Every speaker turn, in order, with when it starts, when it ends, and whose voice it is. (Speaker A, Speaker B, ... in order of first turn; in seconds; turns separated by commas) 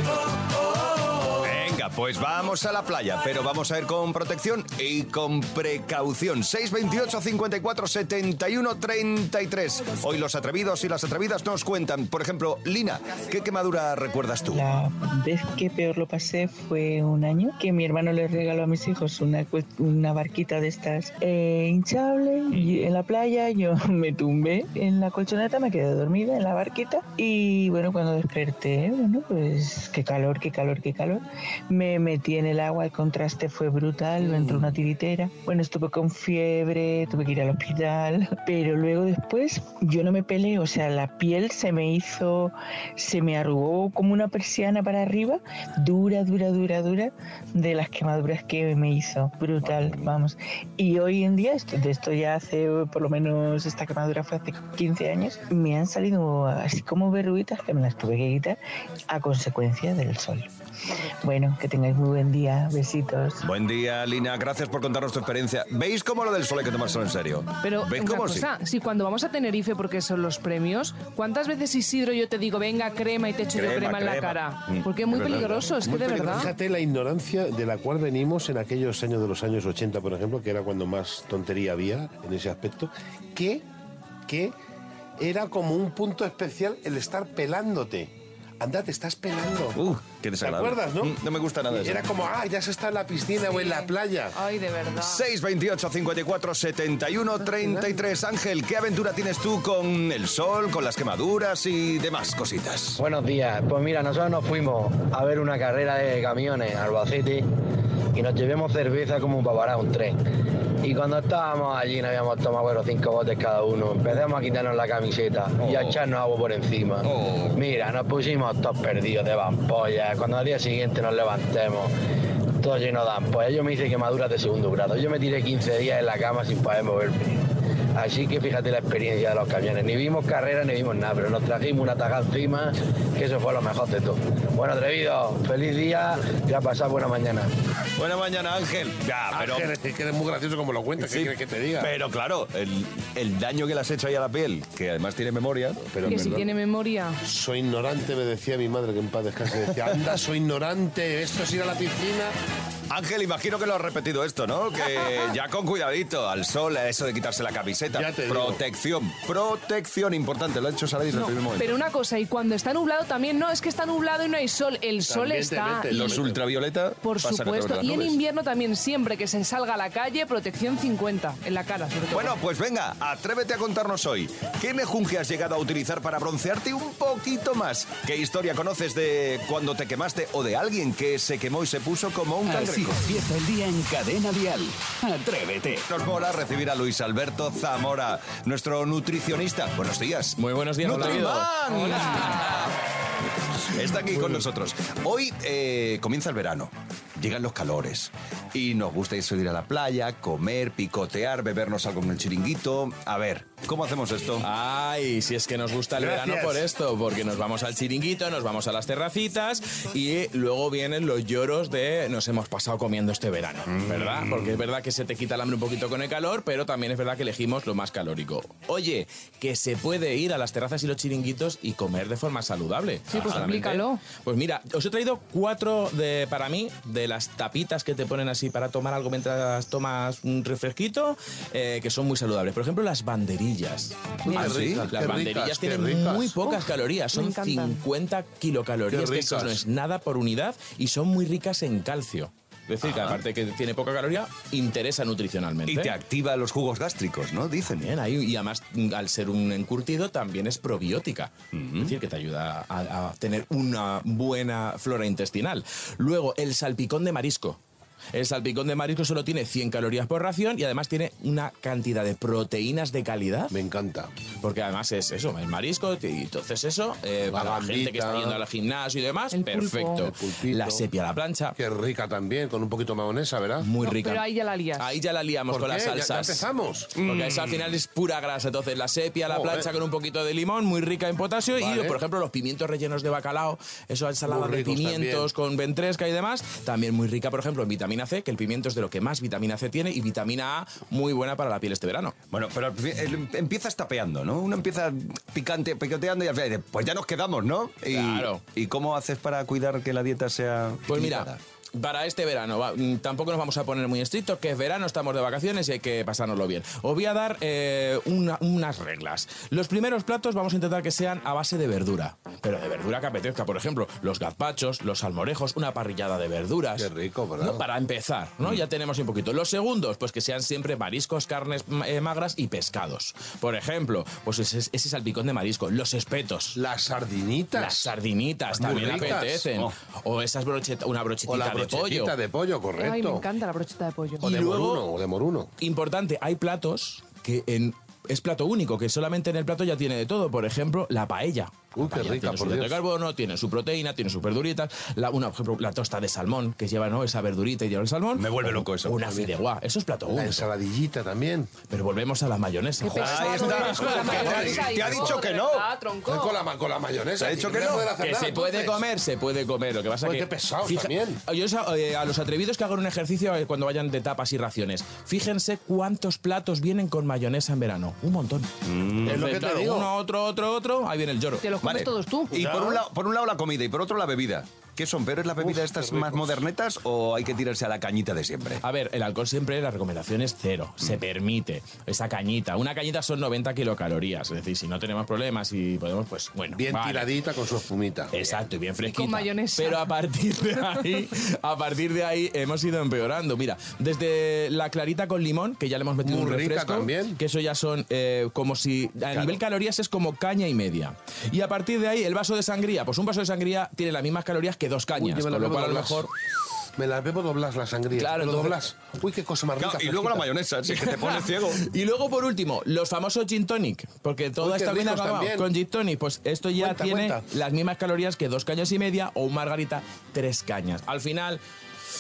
Speaker A: 1.4-14.7, Speaker B: 14.5-58.6, Speaker B: 59.1-60.5, Speaker B: 61.2-63.4, Speaker A: 63.4-68.5, Speaker C: 67.6-76.5, Speaker A: 73.5-76.3, Speaker D: 75.8-83.7, Speaker D: 84.3-84.5, Speaker D: 85.2-89.8, Speaker A: 89.8-92.1, Speaker D: 90.4-91.2, Speaker D: 91.7-94.4, Speaker C: 93.4-95.2, Speaker A: 95.0-103.0, Speaker E: 103.0-107.5, Speaker E: 108.2-110.2, Speaker E: 110.8-121.9, Speaker A: 115.6-116.0, Speaker A: 117.0-117.6, Speaker E: 122.6-137.5, Speaker A: 138.0-139.7, Speaker D: 139.3-141.9, Speaker A: 141.0-146.4, Speaker D: 145.8-146.5, Speaker C: 146.1-147.2, Speaker D: 147.2-152.3, Speaker A: 152.9-161.8, Speaker D: 157.9-158.6, Speaker C: 161.1-166.2, Speaker D: 165.1-166.4, Speaker A: 165.9-168.2, Speaker C: 167.0-172.3, Speaker A: 172.1-183.0, Speaker F: 182.5-185.9, Speaker A: 185.9-192.7, Speaker G: 190.4-192.7, Speaker C: 191.8-192.4, Speaker A: 193.7-204.4, Speaker G: 204.4-246.0, Speaker D: 206.0-206.7, Speaker A: 213.9-214.4, Speaker C: 223.1-224.0, Speaker A: 223.2-223.5, Speaker D: 234.3-236.4, Speaker A: 234.3-234.9, Speaker C: 237.1-237.8, Speaker D: 238.9-239.6, Speaker A: 242.8-243.2, Speaker A: 245.7-247.9, Speaker G: 247.8-257.6, Speaker A: 251.5-251.9, Speaker G: 258.1-263.5, Speaker D: 263.5-264.1, Speaker G: 264.4-271.6, Speaker D: 267.3-268.4, Speaker C: 269.3-270.1, Speaker D: 270.0-270.9, Speaker D: 271.6-273.7, Speaker G: 273.6-276.4, Speaker C: 273.8-274.9, Speaker D: 275.5-276.9, Speaker A: 277.0-277.7, Speaker G: 277.0-292.1, Speaker D: 279.3-279.7, Speaker D: 281.6-282.0, Speaker D: 284.3-285.3, Speaker A: 292.3-301.4, Speaker G: 297.9-298.4, Speaker G: 300.9-316.9, Speaker D: 316.8-317.6, Speaker G: 317.4-326.6, Speaker D: 326.6-327.9, Speaker G: 327.6-332.1, Speaker D: 328.6-329.5, Speaker A: 328.6-329.7, Speaker D: 331.3-333.3, Speaker C: 332.8-334.3, Speaker D: 334.2-335.5, Speaker G: 334.2-334.8, Speaker G: 335.6-350.4, Speaker D: 341.8-342.8, Speaker A: 348.2-349.0, Speaker D: 350.1-351.5, Speaker G: 351.7-354.5, Speaker C: 352.8-356.4, Speaker A: 353.0-355.7, Speaker D: 353.8-355.2, Speaker D: 356.1-358.8, Speaker A: 357.2-357.9, Speaker G: 358.0-368.5, Speaker D: 360.0-361.2, Speaker A: 368.7-369.2, Speaker G: 369.0-371.5, Speaker D: 369.1-369.9, Speaker C: 371.4-372.4, Speaker A: 371.6-378.6, Speaker D: 372.3-372.8, Speaker D: 375.4-376.4, Speaker G: 378.6-387.1, Speaker D: 386.6-388.1, Speaker G: 388.1-406.1, Speaker C: 388.8-389.9, Speaker D: 396.0-397.2, Speaker D: 404.9-406.1, Speaker D: 406.8-410.3, Speaker G: 408.0-408.6, Speaker A: 409.6-411.6, Speaker G: 410.7-421.4, Speaker D: 414.4-415.5, Speaker D: 416.6-417.2